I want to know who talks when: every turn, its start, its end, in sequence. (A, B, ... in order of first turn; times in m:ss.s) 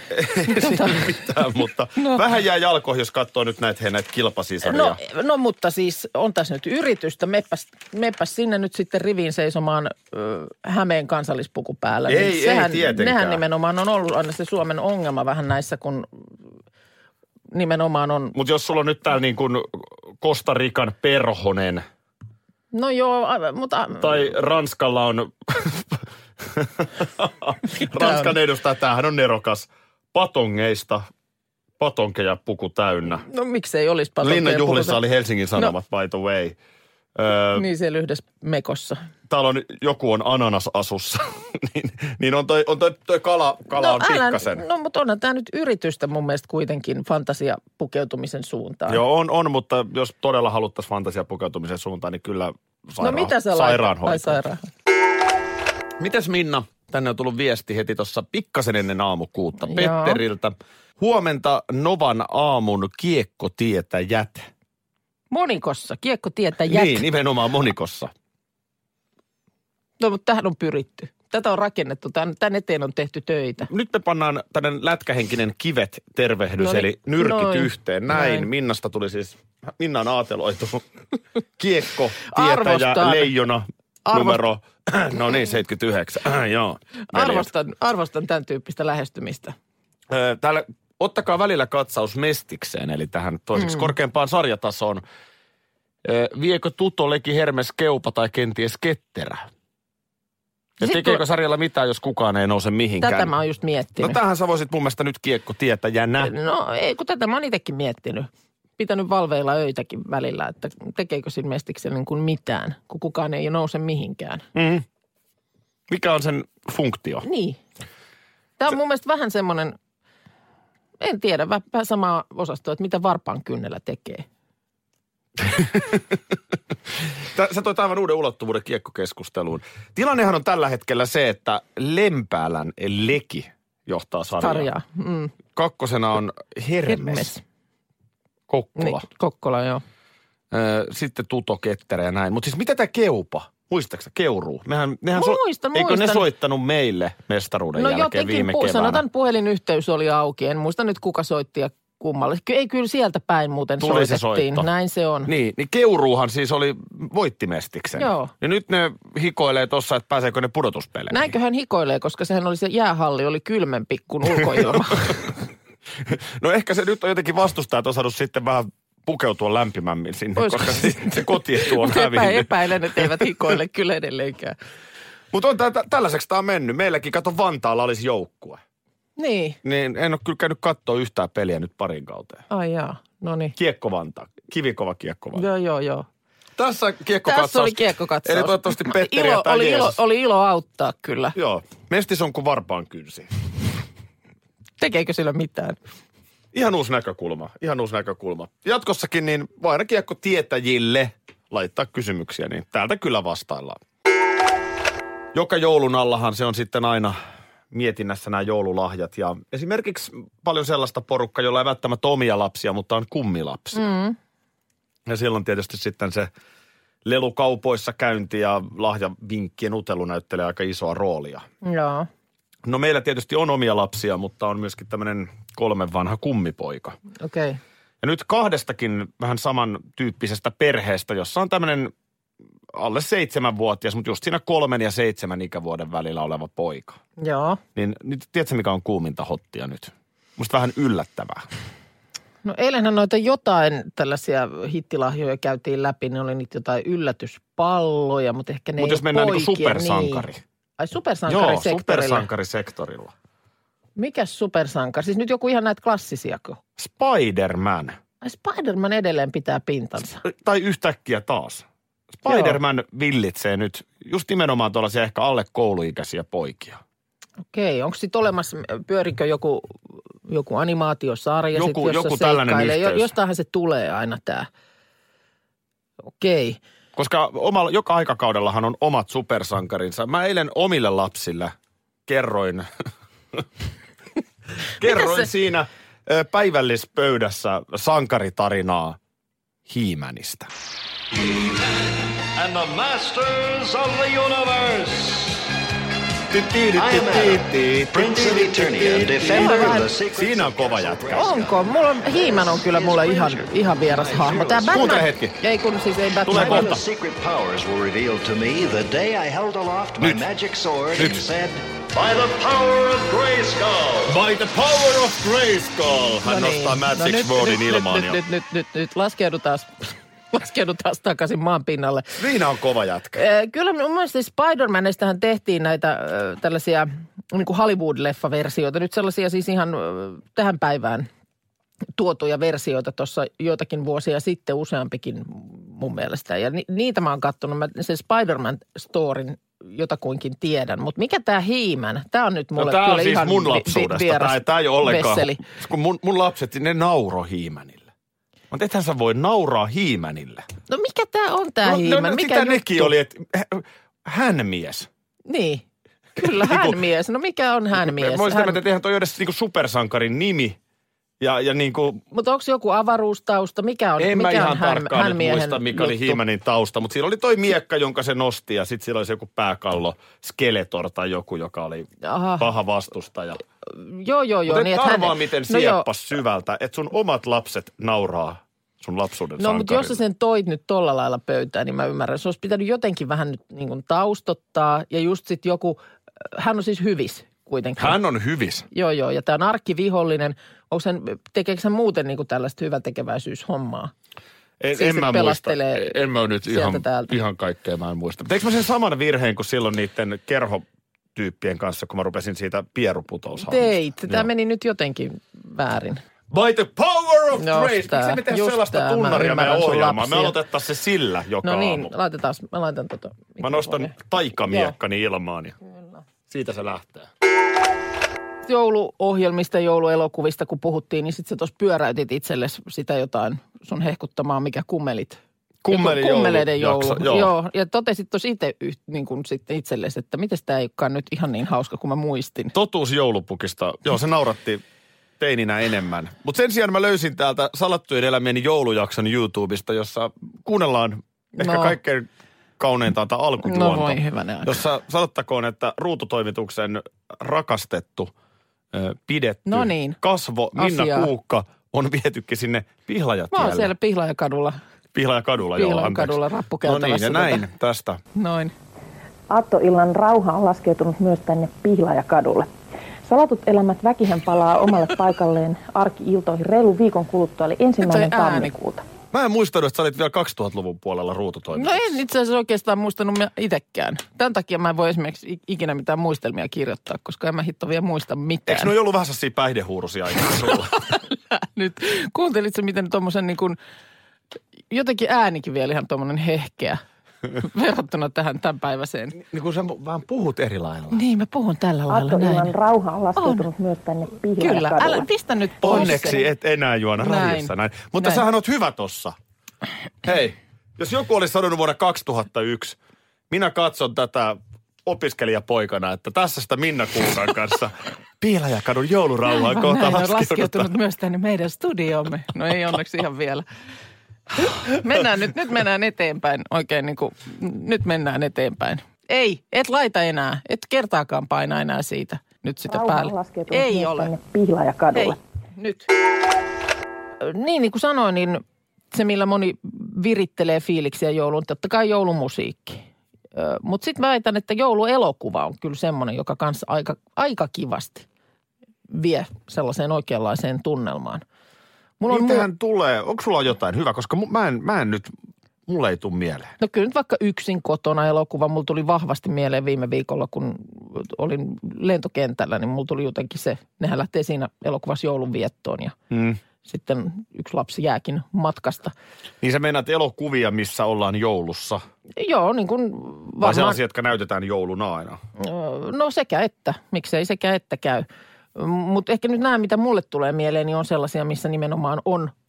0:00.1-0:05.0 A
0:00.4-0:01.2 B
0:04.6-0:16.3 B
0:12.1-0:13.4 A
0:17.5-0:18.4 B
0:18.3-0:21.8 A
0:22.7-0:24.3 B
0:24.0-0:31.0 A
0:27.7-0:28.4 B
0:31.8-0:33.2 A
0:33.1-0:35.0 B
0:34.2-0:36.6 A
0:37.2-0:37.7 A
0:37.5-0:39.0 B
0:39.3-0:44.6 A
0:43.7-0:49.0 B
0:48.9-0:54.4 A
0:53.0-0:54.7 B
0:56.0-1:04.5 A
0:59.7-1:00.2 B
1:05.3-1:07.0 B
1:06.6-1:08.1 A
1:10.0-1:13.7 B
1:13.7-1:20.9 A
1:16.6-1:18.5 B
1:21.6-1:27.5 A
1:22.3-1:23.3 B
1:24.1-1:24.4 B
1:27.1-1:29.6 B
1:30.1-1:35.0 A
1:33.6-1:33.9 B
1:36.0-1:39.4 A
1:40.8-1:43.4 A
1:40.8-1:41.2 B
1:43.0-1:44.2 B
1:44.0-1:46.3 A
1:46.2-1:54.4 B
1:54.5-1:54.8 A
1:55.9-1:57.3 A
1:57.2-1:57.6 B
1:58.6-1:59.8 B
2:01.0-2:04.2 B
2:05.5-2:06.0 A
2:07.3-2:14.7 A
2:14.4-2:15.4 B
2:15.5-2:17.4 A
2:16.9-2:17.4 B
2:18.5-2:19.1 A
2:18.8-2:19.8 B
2:20.5-2:29.0 A
2:25.1-2:26.3 B
2:27.8-2:35.3 B
2:33.8-2:34.7 A
2:35.3-2:41.4 A
2:38.0-2:38.3 B
2:41.1-2:45.3 B
2:44.6-2:45.2 A
2:46.0-2:53.3 A
2:50.4-2:54.6 B
2:55.3-2:58.6 A
2:59.2-2:59.6 B
2:59.6-3:02.4 A
3:02.5-3:03.5 B
3:03.6-3:05.5 A
3:05.3-3:06.1 B
3:06.6-3:10.0 A
3:07.2-3:11.4 B
3:11.4-3:13.3 A
3:14.8-3:15.8 B
3:16.5-3:23.8 A
3:25.3-3:27.2 A
3:27.7-3:33.9 A
3:33.7-3:34.2 B
3:35.1-3:36.3 A
3:37.0-3:41.4 A
3:41.6-3:42.1 B
3:42.6-3:47.0 A
3:47.2-3:47.6 B
3:48.0-3:51.9 A
3:52.7-3:57.0 A
3:57.2-3:57.6 B
3:57.8-4:01.4 A
4:02.4-4:12.3 B
4:08.8-4:10.4 A
4:11.3-4:13.1 A
4:14.0-4:16.6 B
4:16.8-4:18.0 A
4:18.2-4:20.2 B
4:20.2-4:26.8 A
4:22.3-4:22.6 B
4:27.5-4:34.5 B
4:31.6-4:33.1 A
4:36.1-4:36.6 B
4:37.0-4:41.5 A
4:42.1-4:42.6 A
4:44.8-4:49.0 A
4:44.8-4:45.3 B
4:49.7-4:50.5 A
4:52.4-4:55.4 C
4:56.3-5:01.3 A
4:56.7-5:04.8 C
4:59.2-4:59.9 B
5:01.1-5:06.8 B
5:04.7-5:05.4 A
5:06.2-5:06.9 A
5:06.3-5:14.2 C
5:10.9-5:11.2 A
5:14.1-5:18.2 A
5:16.2-5:22.2 B
5:22.2-5:23.2 A
5:23.2-5:31.1 B
5:32.0-5:45.4 B
5:42.6-5:47.9 A
5:48.5-5:50.5 A
5:50.7-5:53.0 B
5:51.6-5:54.9 A
5:55.3-5:55.6 B
5:56.2-5:58.6 B
5:56.2-5:56.8 A
5:57.8-6:00.6 A
6:01.2-6:02.0 A
6:02.1-6:06.2 B
6:04.0-6:13.4 A
6:12.0-6:12.5 B
6:13.6-6:15.9 B
6:14.5-6:20.0 A
6:19.4-6:25.8 B
6:26.3-6:28.0 B
6:27.8-6:28.7 A
6:28.7-6:33.9 B
6:34.6-6:40.6 A
6:34.8-6:37.2 B
6:41.2-6:44.3 A
6:43.4-6:46.0 B
6:46.3-6:51.9 A
6:47.3-6:50.4 B
6:51.4-6:54.8 B
6:53.4-6:55.6 A
6:56.3-6:57.1 A
6:58.4-7:12.5 B
7:05.6-7:07.3 A
7:12.5-7:14.6 A
7:15.2-7:22.1 A
7:21.4-7:21.8 B
7:22.6-7:28.1 A
7:23.4-7:24.6 B
7:28.7-7:33.7 A
7:29.5-7:30.0 B
7:30.6-7:31.1 B
7:33.3-7:34.6 B
7:34.9-7:38.0 A
7:35.4-7:37.5 B
7:38.2-7:38.5 B
7:39.3-7:42.5 D
7:43.0-7:48.8 D
7:47.8-7:48.5 B
7:49.1-7:52.0 A
7:51.5-7:58.7 B
7:58.5-8:00.8 A
8:01.1-8:03.6 B
8:04.7-8:06.8 B
8:07.4-8:09.2 B
8:09.2-8:11.0 A
8:10.9-8:12.6 B
8:11.9-8:15.0 D
8:13.2-8:13.5 B
8:14.4-8:16.3 B
8:15.6-8:16.2 D
8:15.6-8:19.2 A
8:17.0-8:18.2 B
8:20.0-8:22.8 A
8:23.3-8:30.7 A
8:29.2-8:33.4 B
8:34.4-8:44.1 B
8:42.7-8:45.2 D
8:44.9-8:45.9 B
8:47.2-8:52.8 B
8:53.3-8:58.1 B
8:58.9-9:01.2 B
9:02.0-9:02.5 B
9:02.1-9:05.1 A
9:05.7-9:06.5 A
9:06.6-9:16.0 B
9:16.1-9:16.4 A
9:16.6-9:18.9 B
9:19.4-9:21.8 A
9:22.2-9:23.8 B
9:23.4-9:25.2 A
9:25.4-9:32.3 B